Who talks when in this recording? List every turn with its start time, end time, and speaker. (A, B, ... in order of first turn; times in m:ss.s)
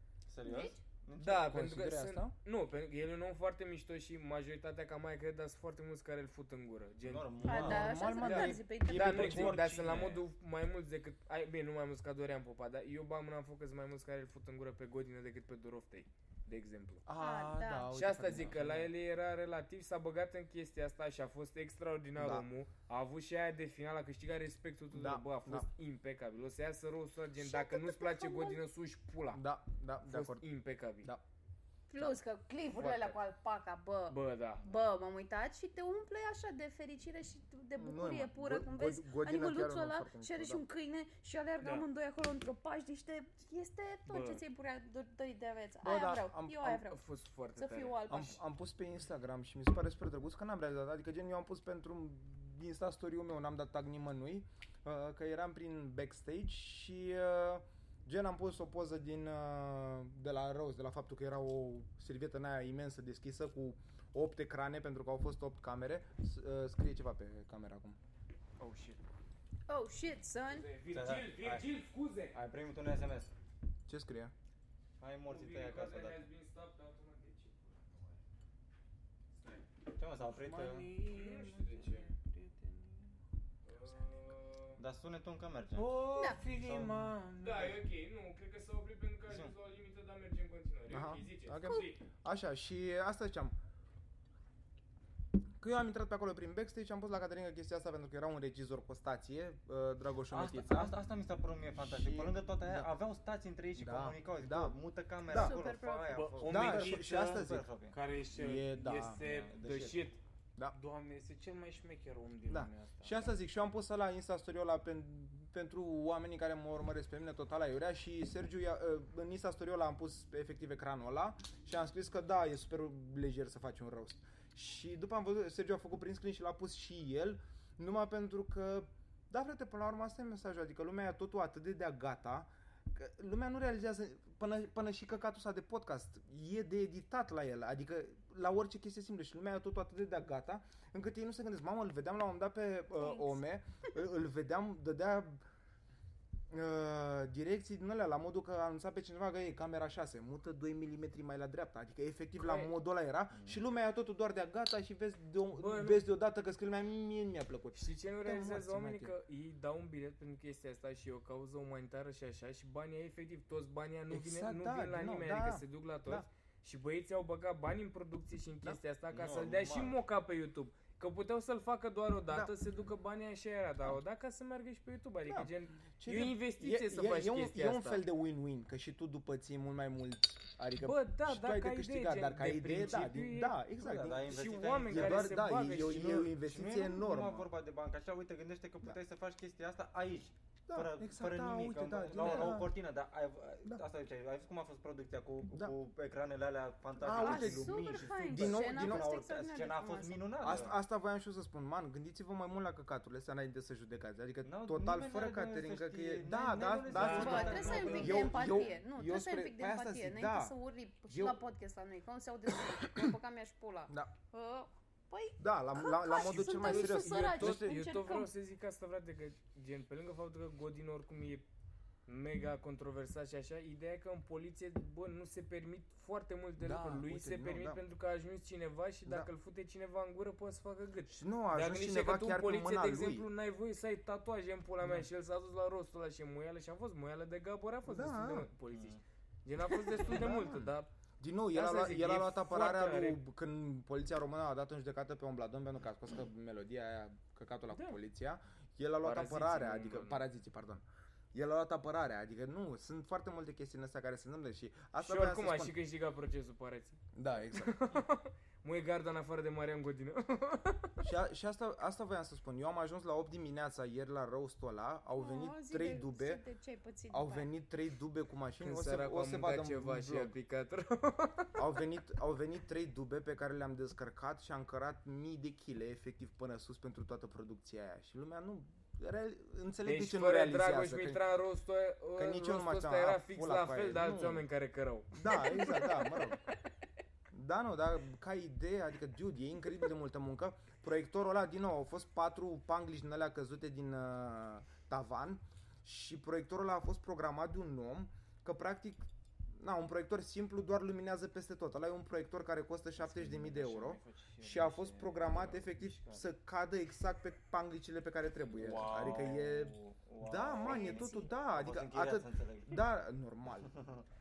0:00.3-0:01.5 A
0:00.4-0:00.8 B
0:01.2-0:17.0 C
0:01.2-0:02.4 D
0:07.0-0:08.0 A
0:07.4-0:09.3 B
0:07.5-0:10.0 D
0:08.9-0:10.2 E
0:17.1-0:18.9 D
0:17.2-0:17.9 B
0:17.9-0:29.4 C
0:22.2-0:22.5 D
0:24.9-0:25.7 D
0:27.4-0:28.6 B
0:29.3-0:30.5 D
0:30.0-0:31.1 C
0:31.9-0:47.0 B
0:32.8-0:33.2 C
0:34.1-0:34.6 C
0:37.8-0:40.6 D
0:41.6-0:41.9 C
0:44.1-0:44.4 C
0:45.8-0:46.9 D
0:46.8-0:48.4 C
0:47.6-0:48.4 B
0:48.1-1:08.0 D
1:08.6-1:09.0 C
1:09.7-1:10.7 B
1:10.5-1:12.4 C
1:10.9-1:11.6 A
1:12.3-1:13.3 A
1:13.9-1:14.3 D
1:15.0-1:16.2 A
1:15.3-1:18.0 C
1:19.4-1:19.7 C
1:19.9-1:20.9 A
1:20.2-1:23.2 E
1:21.0-1:22.1 C
1:23.7-1:24.8 C
1:24.8-1:26.9 A
1:25.8-1:27.8 E
1:27.4-1:32.0 C
1:29.3-1:29.5 A
1:30.9-1:33.6 D
1:35.6-1:41.0 D
1:40.3-1:48.0 A
1:41.8-1:42.9 D
1:43.8-1:44.8 D
1:45.3-1:45.6 D
1:45.3-1:46.2 B
1:46.1-1:49.6 E
1:46.4-1:47.7 D
1:48.3-1:49.2 D
1:49.2-1:50.1 A
1:49.4-1:50.2 C
1:50.7-1:53.3 E
1:52.5-2:25.4 D
2:23.0-2:23.4 B
2:26.5-2:39.1 D
2:32.4-2:32.7 C
2:33.3-2:33.6 A
2:35.6-2:36.0 C
2:37.7-2:58.0 C
2:44.1-2:46.3 D
2:49.1-2:50.0 A
2:52.3-2:52.5 D
2:55.3-3:07.5 D
3:00.8-3:03.6 C
3:03.8-3:20.8 A
3:04.3-3:06.2 C
3:10.7-3:12.8 D
3:17.0-3:19.2 D
3:17.0-3:20.4 B
3:20.4-3:30.6 D
3:24.4-3:28.8 A
3:26.9-3:28.3 E
3:27.1-3:38.3 B
3:31.1-3:31.4 D
3:32.8-3:33.1 D
3:33.9-3:34.1 D
3:35.4-3:37.8 D
3:36.5-3:41.4 C
3:42.1-4:00.9 C
3:46.6-3:47.8 D
3:51.1-3:53.3 D
3:57.9-3:58.5 D
3:58.7-3:59.0 A
3:59.8-4:15.8 D
4:01.5-4:03.2 C
4:09.0-4:10.2 C
4:15.0-4:21.0 C
4:17.1-4:18.0 D
4:21.0-4:26.4 D
4:25.2-4:27.5 B
4:27.1-4:30.4 D
4:28.6-4:31.6 C
4:31.6-4:41.2 D
4:39.8-4:46.2 C
4:42.2-4:44.5 D
4:45.1-4:46.4 D
4:47.3-5:13.7 D
5:03.0-5:05.8 E
5:05.4-5:06.3 A
5:08.6-5:09.5 E
5:08.6-5:12.8 A
5:10.6-5:11.4 B
5:13.7-5:14.0 A